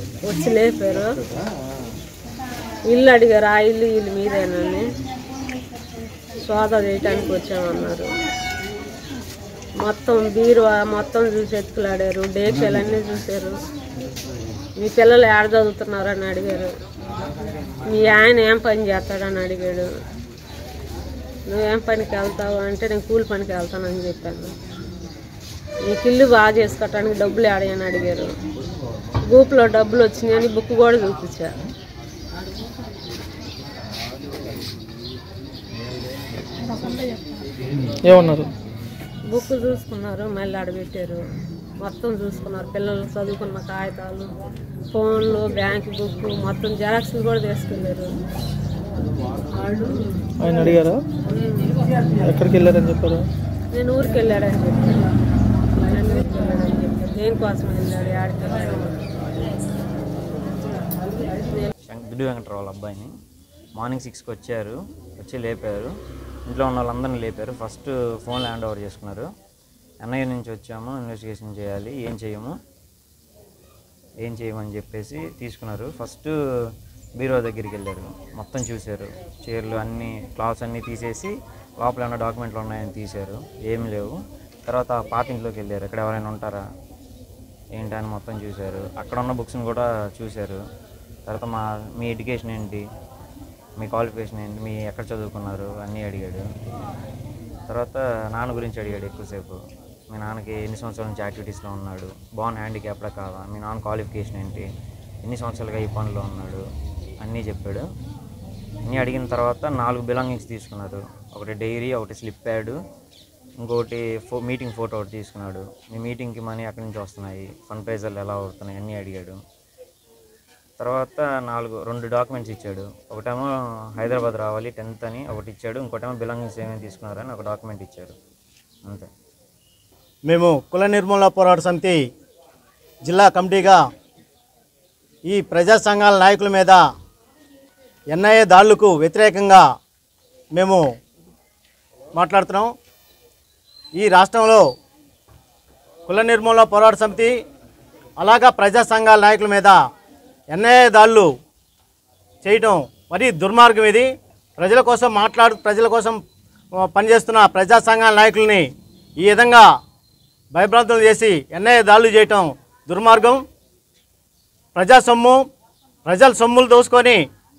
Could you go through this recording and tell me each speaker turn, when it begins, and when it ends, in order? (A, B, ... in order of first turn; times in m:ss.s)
0:00.2-0:01.1 A
0:02.9-0:04.8 A
0:06.4-0:08.1 A
0:09.8-0:13.6 A
0:14.8-0:16.7 A
0:17.8-0:19.9 A
0:21.5-0:24.5 A
0:25.9-0:28.3 A
0:29.2-0:31.5 A
0:38.0-0:38.5 B
0:39.3-0:41.2 A
0:41.8-0:44.3 A
0:44.9-0:48.1 A
0:50.4-0:51.0 B
0:51.2-0:51.8 A
0:52.2-0:53.3 B
0:53.7-0:55.1 A
0:55.7-0:59.1 A
1:01.4-1:01.7 A
1:01.8-1:03.1 C
1:03.8-1:05.9 C
1:06.5-1:09.3 C
1:10.0-1:12.6 C
1:14.2-1:16.3 C
1:17.2-1:24.2 C
1:24.7-1:26.6 C
1:27.8-1:30.6 C
1:31.3-1:32.8 C
1:33.8-1:36.4 C
1:37.7-1:39.6 C
1:40.1-1:44.7 C
1:45.2-1:46.6 C
1:47.2-1:47.8 C
1:48.9-1:52.8 C
1:53.6-1:59.4 C
2:00.8-2:08.2 C
2:10.3-2:12.0 D
2:13.0-2:13.8 D
2:15.3-2:16.8 D
2:18.1-2:19.6 D
2:20.6-2:20.8 D
2:22.2-2:22.7 D
2:24.0-2:24.6 D
2:26.1-2:27.4 D
2:28.2-2:29.8 D
2:30.5-2:31.3 D
2:32.4-2:36.2 D
2:36.8-2:38.7 D
2:39.2-2:39.7 D
2:40.5-2:43.4 D
2:44.7-2:45.4 D
2:46.0-2:47.2 D